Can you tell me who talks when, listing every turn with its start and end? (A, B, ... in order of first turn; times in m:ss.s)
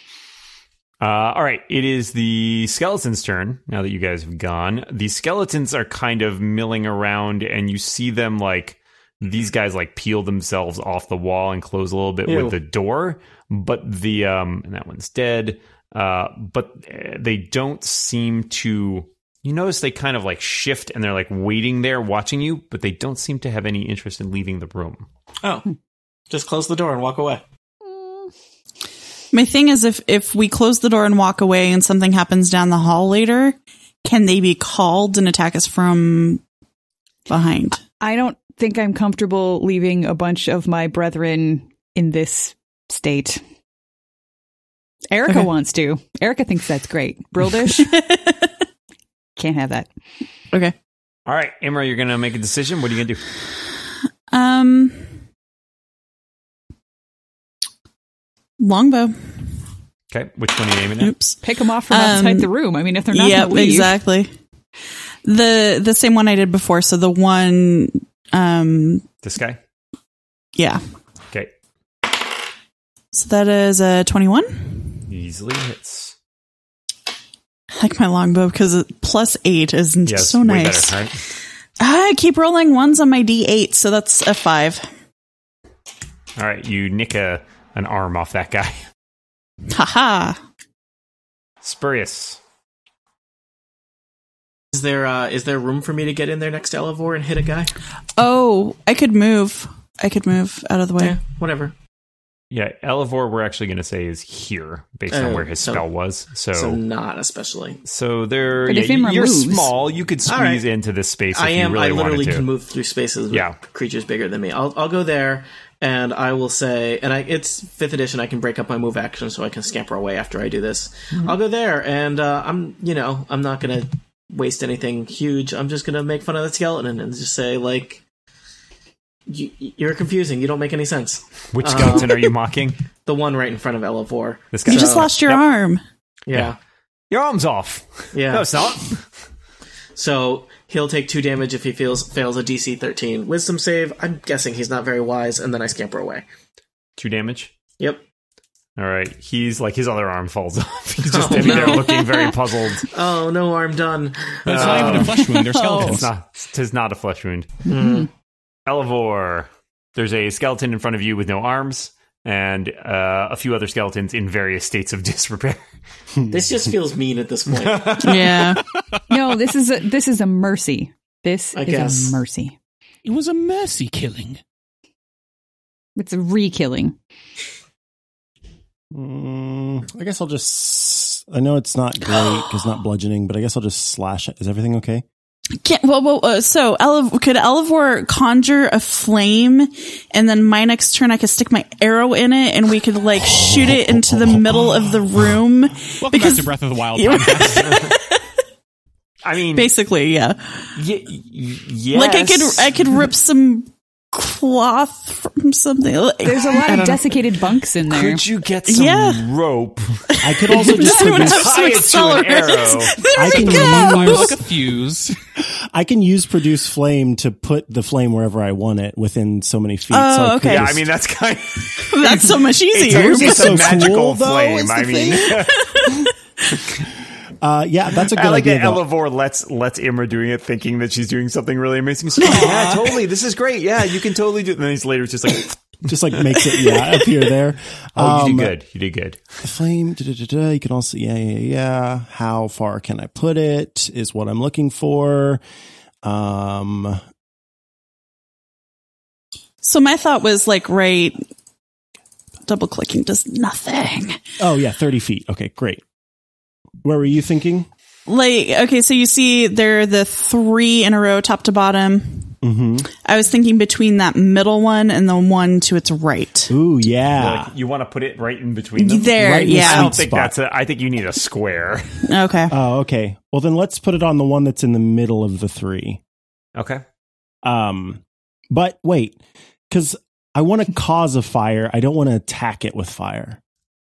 0:01.0-0:25.1 A
0:12.3-0:12.6 B
0:25.4-0:25.7 B
0:26.3-0:27.4 B
0:29.3-0:36.4 C
0:37.3-0:37.8 C
0:37.8-0:43.4 D
0:45.1-0:48.0 D
0:47.8-0:48.5 C
0:49.4-0:49.9 D
0:51.3-0:53.2 A
0:54.3-0:55.0 C
0:58.6-0:59.3 C
1:00.1-1:01.1 A
1:01.0-1:01.4 C
1:01.4-1:03.9 D
1:01.9-1:02.5 C
1:03.1-1:04.3 C
1:05.2-1:09.0 C
1:09.2-1:09.6 A
1:10.6-1:10.8 C
1:13.1-1:15.0 C
1:15.1-1:16.2 A
1:17.7-1:21.0 C
1:20.0-1:21.2 A
1:21.8-1:24.9 C
1:26.4-1:28.8 A
1:29.7-1:30.4 C
1:31.6-1:32.4 A
1:34.7-1:37.7 B
1:38.2-1:41.2 C
1:41.0-1:41.7 B
1:42.5-1:46.8 A
1:45.1-1:45.8 B
1:46.5-1:47.8 B
1:47.8-1:52.5 A
1:48.7-1:49.7 D
1:50.3-1:50.6 B
1:51.3-2:08.0 B
1:53.3-1:53.6 A
2:09.3-2:12.3 B
2:11.5-2:12.8 A
2:13.0-2:15.2 B
2:14.5-2:15.4 A
2:14.7-2:15.8 C
2:16.3-2:16.6 B
2:17.1-2:19.0 A
2:18.1-2:18.5 B
2:20.0-2:26.2 B
2:27.0-2:27.5 A
2:28.8-2:32.9 A
2:31.0-2:32.0 B
2:31.6-2:32.3 D
2:32.9-2:35.2 B
2:34.5-2:36.1 E
2:34.5-2:35.2 A
2:35.2-2:36.0 D
2:35.7-2:37.6 A
2:37.7-2:38.1 B
2:37.8-2:38.0 D
2:38.7-2:45.7 A
2:46.3-2:48.3 B
2:47.6-2:48.5 A
2:48.0-2:48.6 C
2:49.1-2:52.6 D
2:51.5-2:52.2 B
2:53.0-2:54.4 E
2:56.0-2:57.0 D
2:58.9-3:05.0 F
3:05.6-3:18.2 C
3:13.2-3:15.3 F
3:16.0-3:17.8 E
3:17.6-3:17.9 A
3:19.2-3:19.7 A
3:19.6-3:20.7 C
3:20.8-3:22.7 A
3:21.9-3:27.1 C
3:26.2-3:28.2 D
3:27.9-3:30.0 A
3:28.7-3:29.3 C
3:30.1-3:34.4 C
3:30.2-3:31.8 F
3:30.8-3:33.0 A
3:33.2-3:34.4 F
3:33.2-3:35.2 E
3:35.4-3:40.8 F
3:39.9-3:40.7 C
3:40.5-3:45.9 A
3:41.8-3:43.6 C
3:42.7-3:45.5 F
3:47.4-3:48.8 F
3:48.1-3:56.8 A
3:52.2-3:52.9 C
3:55.9-3:58.6 F
3:58.0-3:59.2 A
3:59.4-4:05.4 F
4:06.0-4:07.0 F
4:09.6-4:11.2 C
4:12.5-4:14.2 C
4:14.4-4:15.8 F
4:16.8-4:17.7 F
4:18.1-4:22.3 C
4:22.4-4:22.9 F
4:22.9-4:26.5 C
4:26.5-4:27.5 F
4:27.2-4:32.1 A
4:28.8-4:30.0 C
4:29.2-4:30.4 F
4:32.1-4:32.5 C
4:32.5-4:36.0 F
4:36.6-4:36.8 A
4:37.4-4:39.2 F
4:39.7-4:43.4 F